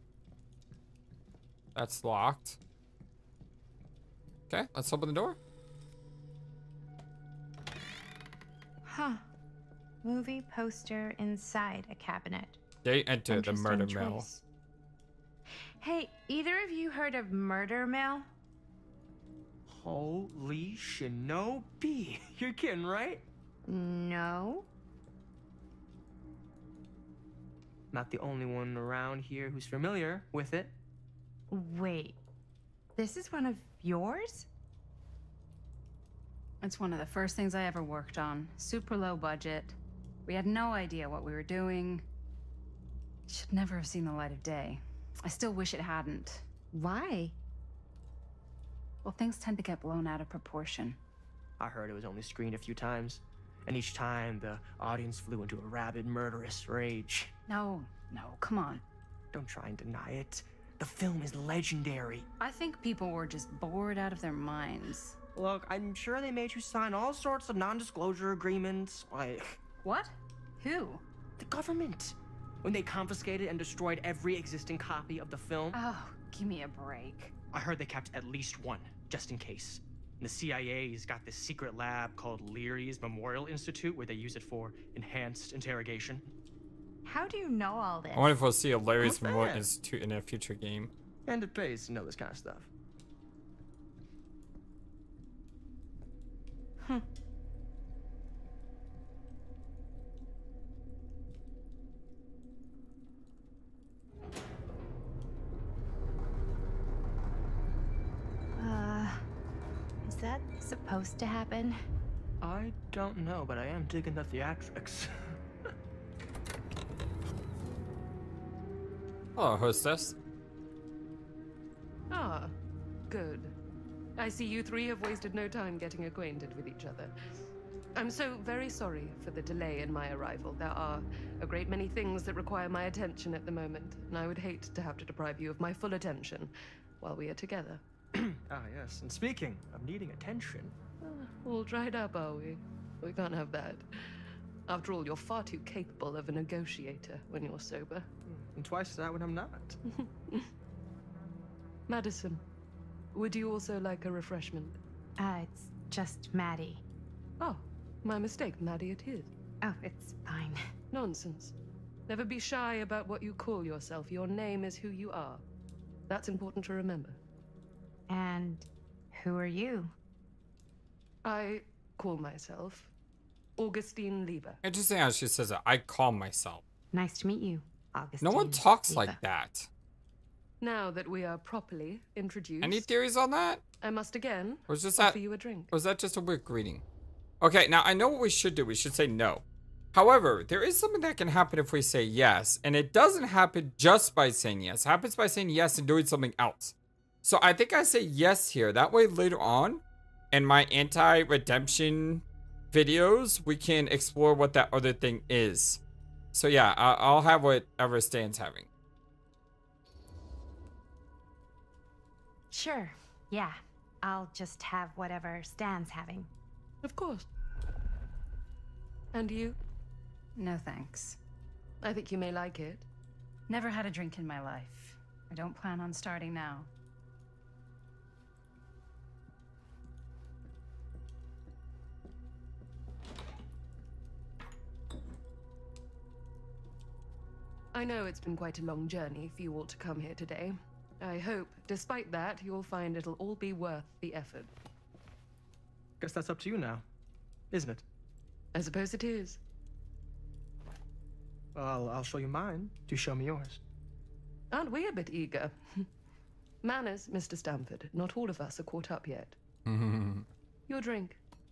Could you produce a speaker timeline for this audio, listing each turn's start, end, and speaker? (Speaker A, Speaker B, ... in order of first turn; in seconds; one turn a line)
Speaker A: 1.8-2.6
Speaker A: 4.5-5.4
Speaker B: 8.9-9.2
Speaker B: 10.0-12.6
Speaker A: 12.8-14.3
Speaker B: 13.3-14.4
Speaker B: 15.8-18.3
Speaker C: 19.7-23.2
Speaker B: 23.7-24.7
Speaker C: 27.9-30.8
Speaker B: 31.5-32.2
Speaker B: 33.0-34.5
Speaker D: 36.6-42.0
Speaker D: 43.3-46.5
Speaker B: 46.7-47.4
Speaker D: 49.0-51.0
Speaker C: 51.6-57.3
Speaker D: 57.5-58.8
Speaker C: 59.3-62.3
Speaker D: 62.4-65.2
Speaker C: 65.3-69.6
Speaker D: 69.8-71.0
Speaker C: 71.4-75.8
Speaker D: 75.7-77.3
Speaker C: 77.5-86.3
Speaker B: 87.0-88.4
Speaker A: 88.1-90.9
Speaker B: 89.0-89.6
Speaker C: 91.3-92.7
Speaker B: 108.5-109.2
Speaker B: 110.0-111.8
Speaker C: 112.4-115.4
Speaker A: 119.4-120.2
Speaker E: 122.1-122.5
Speaker E: 123.1-123.5
Speaker E: 124.2-127.1
Speaker E: 128.0-137.8
Speaker C: 138.1-140.8
Speaker E: 141.0-143.9
Speaker E: 144.7-148.1
Speaker C: 148.3-149.8
Speaker E: 149.9-150.5
Speaker E: 151.9-152.4
Speaker E: 153.1-154.8
Speaker B: 155.2-156.8
Speaker E: 157.4-159.3
Speaker B: 159.6-160.6
Speaker E: 160.9-161.5
Speaker E: 162.1-165.4
Speaker E: 166.1-167.2
Speaker B: 168.1-169.9
Speaker E: 171.2-172.9
Speaker E: 173.6-174.6
Speaker A: 174.6-176.6
Speaker B: 176.9-179.2
Speaker A: 178.2-179.7
Speaker E: 180.6-182.9
Speaker A: 182.6-183.6
Speaker E: 183.8-185.7
Speaker A: 184.7-185.2
Speaker A: 185.7-186.8
Speaker A: 187.4-205.8
Speaker A: 206.3-208.7
Speaker B: 212.5-216.3
Speaker E: 216.8-217.3
Speaker E: 219.1-219.6
Speaker D: 220.4-221.2
Speaker E: 221.8-222.9
Speaker D: 223.5-226.7
Speaker E: 237.7-244.5
Speaker C: 246.0-246.8
Speaker C: 247.5-247.8
Speaker E: 248.5-249.4
Speaker C: 251.6-253.6
Speaker E: 254.5-255.9
Speaker E: 256.6-259.4
Speaker A: 259.7-260.3
Speaker E: 260.7-261.2